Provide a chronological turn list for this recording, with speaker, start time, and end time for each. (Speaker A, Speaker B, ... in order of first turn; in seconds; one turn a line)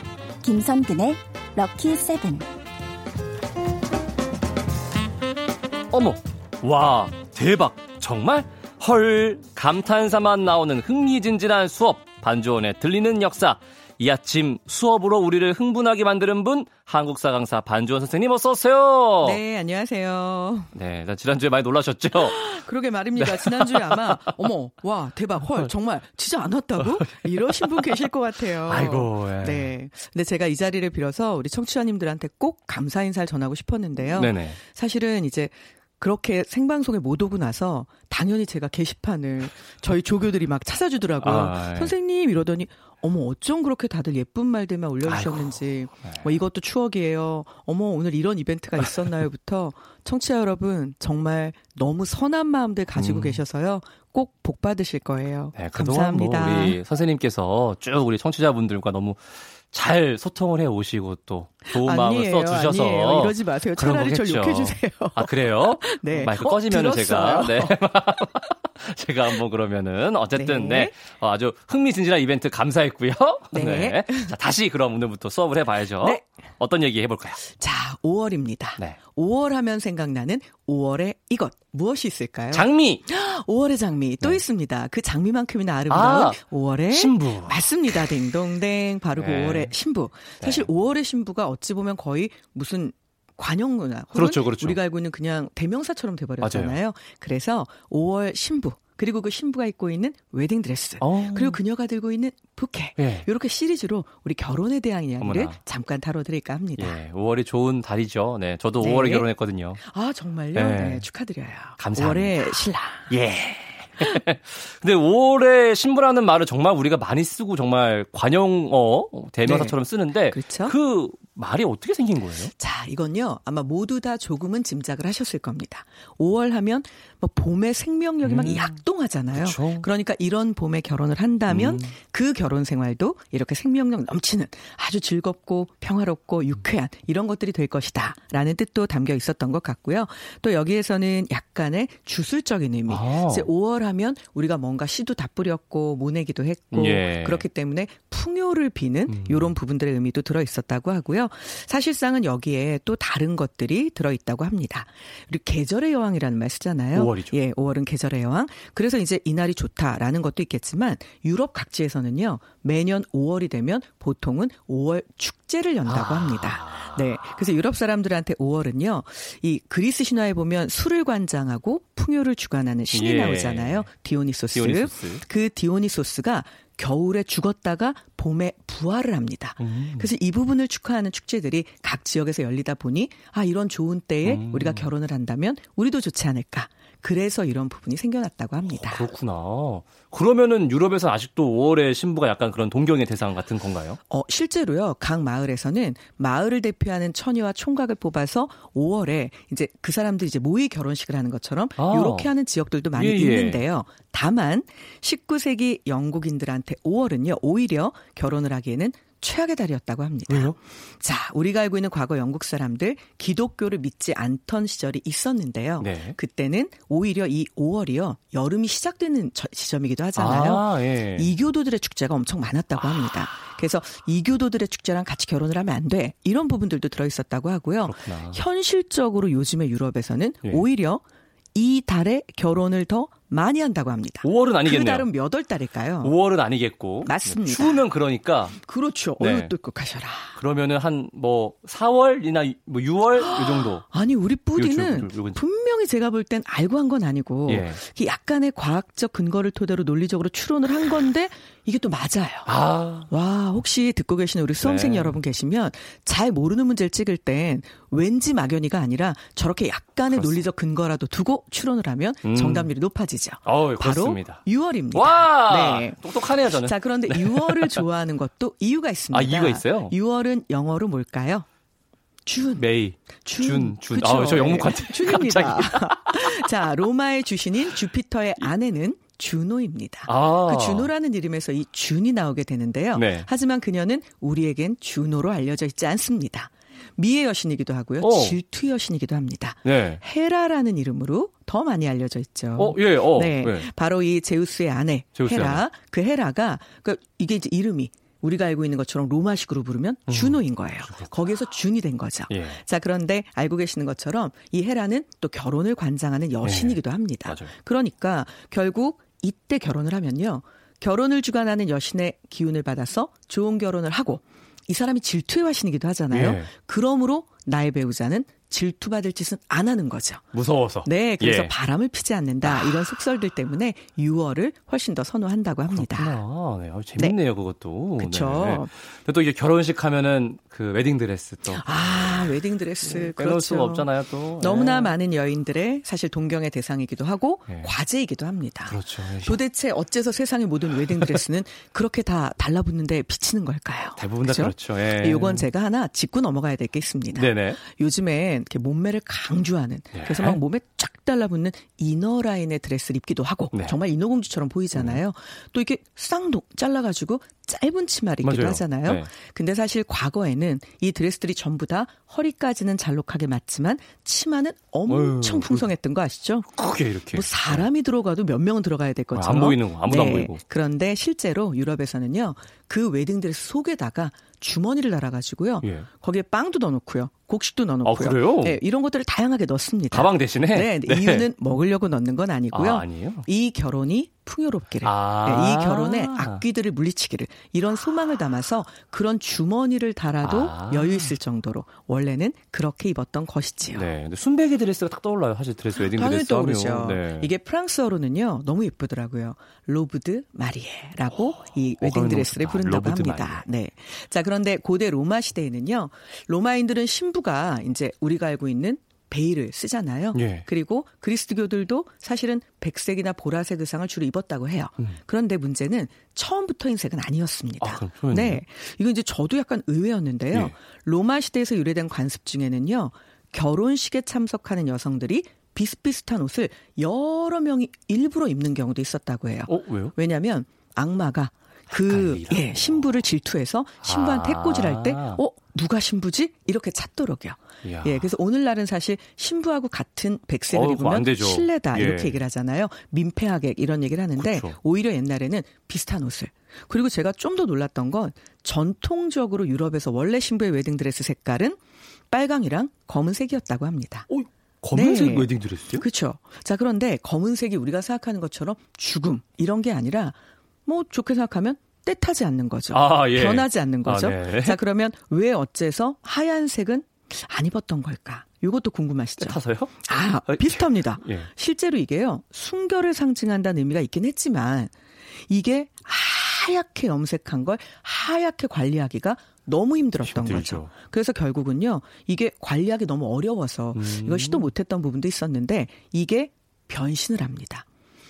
Speaker A: 0.4-2.5
Speaker B: 5.9-19.4
Speaker C: 19.2-20.7
Speaker B: 20.8-22.6
Speaker C: 22.1-56.8
Speaker B: 23.2-24.4
Speaker B: 26.8-28.0
Speaker B: 28.5-29.7
Speaker B: 34.1-34.6
Speaker B: 41.2-41.9
Speaker B: 45.0-46.3
Speaker B: 53.0-53.4
Speaker B: 55.5-77.4
Speaker C: 61.7-67.8
Speaker C: 70.3-71.0
Speaker C: 73.5-74.3
Speaker C: 76.0-76.2
Speaker C: 77.5-107.0
Speaker B: 82.5-83.0
Speaker B: 85.9-88.2
Speaker B: 89.1-89.7
Speaker B: 90.4-90.7
Speaker B: 94.1-94.8
Speaker B: 96.4-96.8
Speaker B: 101.0-101.6
Speaker B: 103.0-103.3
Speaker B: 105.2-105.6
Speaker B: 106.8-109.8
Speaker C: 108.8-109.3
Speaker C: 109.8-113.1
Speaker B: 110.5-111.0
Speaker B: 111.8-122.5
Speaker C: 119.5-119.8
Speaker C: 120.3-120.8
Speaker C: 122.5-189.1
Speaker B: 128.2-128.8
Speaker B: 129.3-129.9
Speaker B: 131.5-131.9
Speaker B: 142.9-143.5
Speaker B: 146.7-147.4
Speaker B: 149.1-149.5
Speaker B: 156.9-157.3
Speaker B: 165.8-167.0
Speaker B: 172.9-173.9
Speaker B: 174.5-175.2
Speaker B: 179.6-180.1
Speaker B: 184.2-184.9
Speaker B: 188.7-194.0
Speaker C: 194.1-236.2
Speaker B: 201.8-202.3
Speaker B: 202.9-203.7
Speaker B: 210.3-210.6
Speaker B: 215.8-216.2
Speaker B: 220.2-221.3
Speaker B: 227.8-228.4
Speaker B: 234.2-235.1
Speaker B: 236.0-238.6
Speaker C: 237.0-237.9
Speaker C: 238.6-240.4
Speaker B: 239.2-239.5
Speaker B: 240.3-243.8
Speaker C: 243.2-252.5
Speaker B: 244.6-245.4
Speaker B: 247.5-247.8
Speaker B: 252.5-253.1
Speaker C: 253.1-271.5
Speaker B: 254.6-255.2
Speaker B: 260.1-260.5
Speaker B: 262.2-262.7
Speaker B: 263.4-264.4
Speaker B: 264.9-267.9
Speaker B: 269.1-269.9
Speaker C: 272.3-272.7
Speaker B: 272.6-276.5
Speaker C: 273.2-320.3
Speaker B: 280.1-280.9
Speaker B: 282.9-283.3
Speaker B: 288.0-288.4
Speaker B: 289.6-290.0
Speaker B: 292.6-293.7
Speaker B: 295.2-295.6
Speaker B: 300.1-301.1
Speaker B: 302.3-302.6
Speaker B: 306.4-307.5
Speaker B: 316.1-316.5
Speaker B: 320.3-321.5
Speaker C: 320.8-326.2
Speaker B: 322.4-322.8
Speaker B: 325.7-335.0
Speaker C: 328.0-328.7
Speaker C: 331.5-366.5
Speaker B: 337.5-337.7
Speaker B: 338.7-339.4
Speaker B: 340.9-341.2
Speaker B: 344.0-345.5
Speaker B: 347.1-347.6
Speaker B: 349.9-350.4
Speaker B: 354.7-355.0
Speaker B: 358.2-359.1
Speaker B: 364.9-365.7
Speaker B: 366.6-367.7
Speaker C: 367.1-393.9
Speaker B: 369.1-370.4
Speaker B: 375.6-375.9
Speaker B: 377.8-378.6
Speaker B: 379.9-381.3
Speaker B: 382.5-383.3
Speaker B: 384.8-386.4
Speaker B: 390.2-391.1
Speaker B: 393.7-397.3
Speaker C: 395.7-451.6
Speaker B: 401.4-403.5
Speaker B: 410.1-410.5
Speaker B: 417.6-418.4
Speaker B: 429.5-429.9
Speaker B: 431.7-433.0
Speaker B: 433.8-435.2
Speaker B: 437.6-438.1
Speaker B: 440.5-442.2
Speaker B: 444.2-444.6
Speaker C: 452.1-454.1
Speaker B: 454.1-455.9
Speaker C: 454.7-474.7
Speaker B: 462.7-464.6
Speaker B: 469.2-471.3
Speaker C: 475.3-487.7
Speaker B: 480.0-480.7
Speaker B: 483.7-484.5